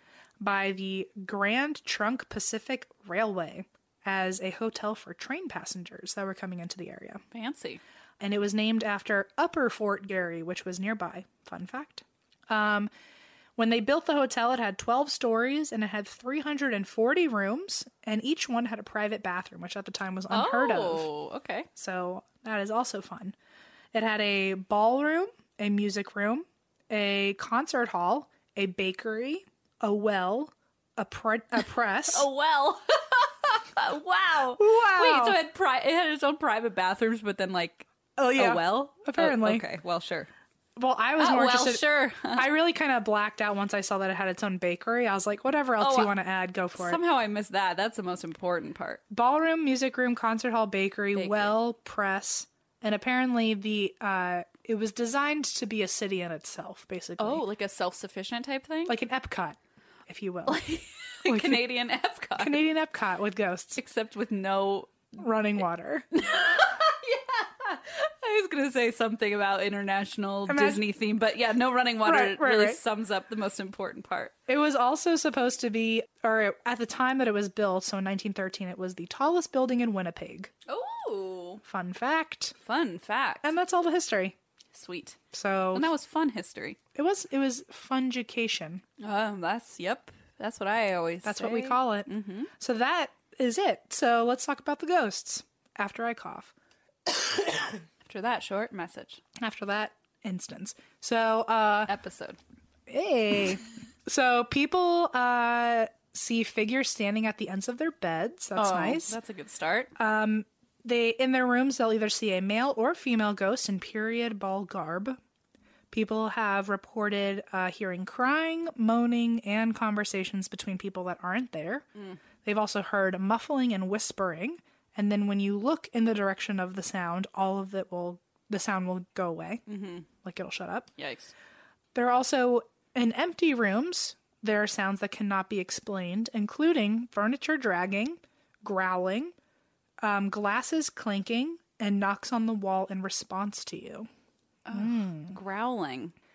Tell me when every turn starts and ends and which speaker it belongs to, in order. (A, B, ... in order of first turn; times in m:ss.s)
0:00.4-0:07.2 A
0:07.3-0:07.8 B
0:08.2-0:12.9 A
0:13.6-0:21.1 A
0:20.3-0:21.7 B
0:21.8-0:23.3 A
0:23.9-0:32.3 A
0:32.1-0:40.3 B
0:34.6-0:35.4 A
0:38.2-0:39.6 A
0:40.8-0:47.0 A
0:41.2-0:42.5 B
0:45.8-0:46.1 B
0:46.8-0:49.0 B
0:49.1-0:57.4 A
0:51.1-0:51.5 B
0:57.2-0:59.0 B
0:58.9-1:00.6 A
1:00.4-1:02.6 B
1:01.2-1:01.7 A
1:02.4-1:03.8 A
1:03.8-1:05.1 B
1:05.2-1:06.0 A
1:06.1-1:14.3 B
1:10.5-1:10.8 A
1:12.0-1:12.8 A
1:14.5-1:20.5 A
1:20.7-1:21.6 B
1:21.6-1:22.5 A
1:22.6-1:23.5 B
1:23.4-1:24.3 A
1:24.7-1:25.2 B
1:25.3-1:25.9 A
1:25.7-1:26.8 B
1:26.9-1:28.8 A
1:29.0-1:32.5 B
1:31.2-1:36.5 A
1:37.1-1:37.7 A
1:38.0-1:39.2 B
1:39.4-1:41.9 A
1:41.9-1:42.4 B
1:42.9-1:49.2 A
1:48.6-1:49.9 B
1:50.0-1:55.2 A
1:55.9-2:01.8 A
2:02.4-2:09.6 A
2:09.6-2:10.1 B
2:10.2-2:10.9 A
2:11.0-2:11.3 B
2:11.9-2:19.3 A
2:20.0-2:24.1 A
2:24.6-2:26.1 B
2:24.7-2:25.4 A